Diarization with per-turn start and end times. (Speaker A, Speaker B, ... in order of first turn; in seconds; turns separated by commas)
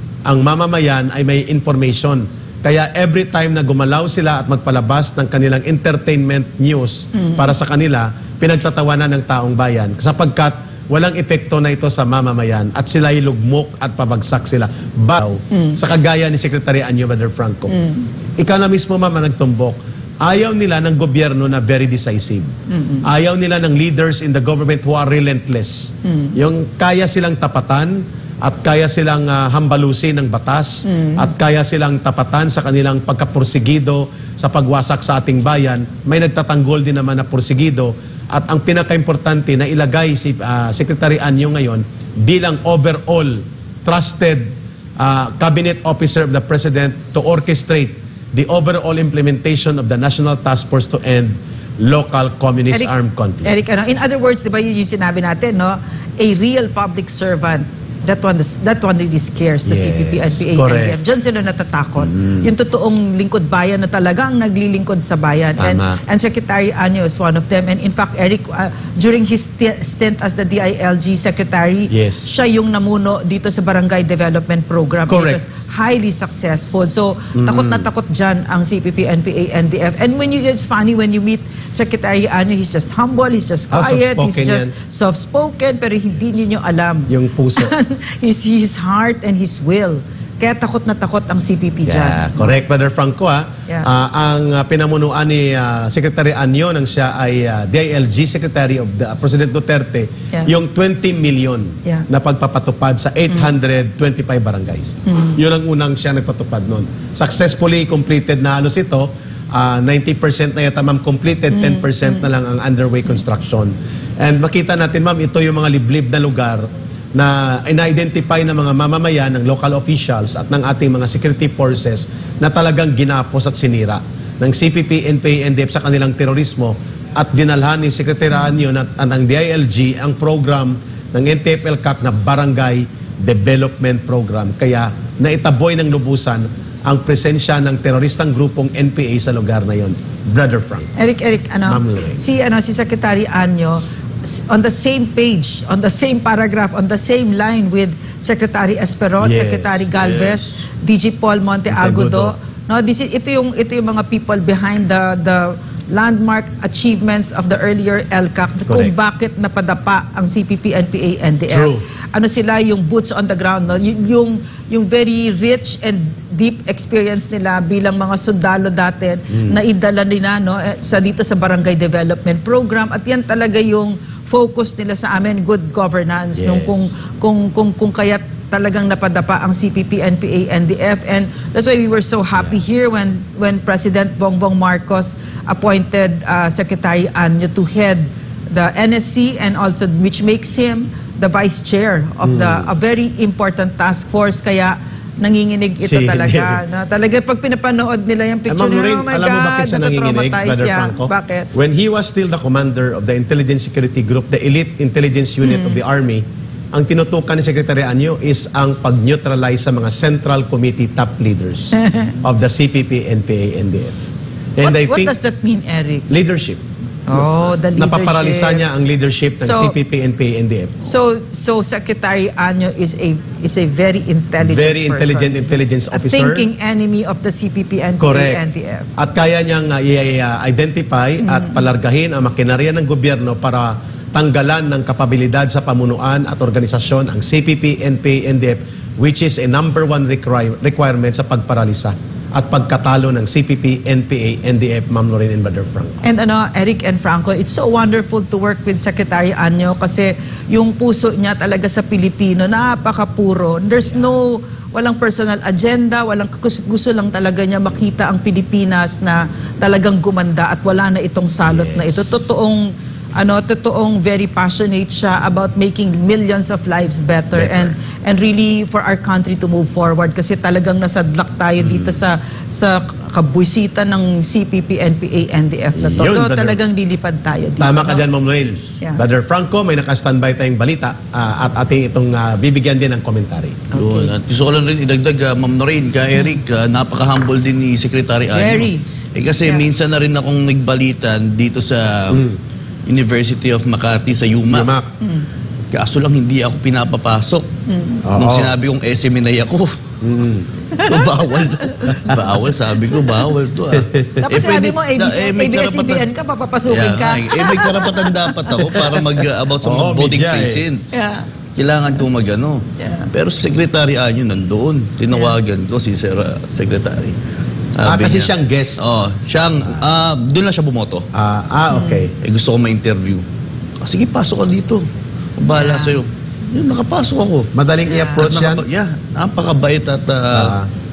Speaker A: 0.3-17.8, Speaker B: 7.2-7.5, Speaker B: 15.5-15.8, Speaker B: 17.7-18.1, Speaker A: 18.4-22.5, Speaker B: 22.7-23.1, Speaker A: 23.0-53.6, Speaker B: 26.0-26.4, Speaker B: 30.9-31.3, Speaker B: 53.4-92.5, Speaker A: 59.7-61.0, Speaker A: 62.0-62.5, Speaker A: 65.6-66.0, Speaker A: 71.9-72.3, Speaker A: 75.1-75.4, Speaker A: 77.4-77.9, Speaker A: 83.7-84.7, Speaker A: 87.1-87.7, Speaker A: 91.9-140.9, Speaker B: 105.1-105.4, Speaker B: 111.5-112.2, Speaker B: 141.0-201.5, Speaker A: 141.7-142.2, Speaker A: 149.2-150.2, Speaker A: 151.7-152.3, Speaker A: 158.7-158.9, Speaker A: 161.5-161.8, Speaker A: 169.3-169.6, Speaker A: 176.4-176.9, Speaker A: 192.2-192.7, Speaker A: 195.8-196.6, Speaker A: 198.5-214.0, Speaker B: 205.4-205.8, Speaker B: 211.8-212.2, Speaker A: 214.6-215.2, Speaker B: 214.6-216.1, Speaker A: 216.1-220.9, Speaker B: 217.1-218.6, Speaker B: 219.4-219.8, Speaker B: 220.8-228.9, Speaker A: 224.4-226.5, Speaker A: 228.0-228.4, Speaker A: 229.0-246.0, Speaker B: 231.2-231.6, Speaker B: 246.0-278.1, Speaker A: 261.4-262.2, Speaker A: 267.4-267.7, Speaker A: 271.6-272.0, Speaker A: 275.8-276.6, Speaker A: 277.6-283.7, Speaker B: 283.7-284.1, Speaker C: 283.8-292.2, Speaker B: 286.1-286.4, Speaker B: 288.3-288.8, Speaker A: 292.1-292.4, Speaker C: 292.9-294.7, Speaker A: 294.5-294.9, Speaker B: 295.0-295.3, Speaker C: 295.7-297.5, Speaker B: 297.7-298.0, Speaker A: 298.0-298.5, Speaker C: 298.1-299.7, Speaker A: 300.0-300.5, Speaker B: 300.7-302.0, Speaker C: 300.8-306.1, Speaker A: 301.9-302.2, Speaker A: 303.8-304.3, Speaker B: 304.2-308.5, Speaker C: 306.7-311.0, Speaker A: 308.6-310.6, Speaker B: 310.9-311.3, Speaker C: 311.6-317.2, Speaker B: 312.8-313.1, Speaker B: 315.1-315.4, Speaker C: 317.8-321.1, Speaker A: 317.8-318.8, Speaker A: 321.1-322.1, Speaker B: 321.7-322.1, Speaker C: 322.2-323.2, Speaker C: 323.8-324.9, Speaker C: 325.4-327.5, Speaker B: 325.5-326.0, Speaker A: 327.5-328.6, Speaker B: 327.9-328.3, Speaker C: 328.2-330.6, Speaker A: 330.3-330.7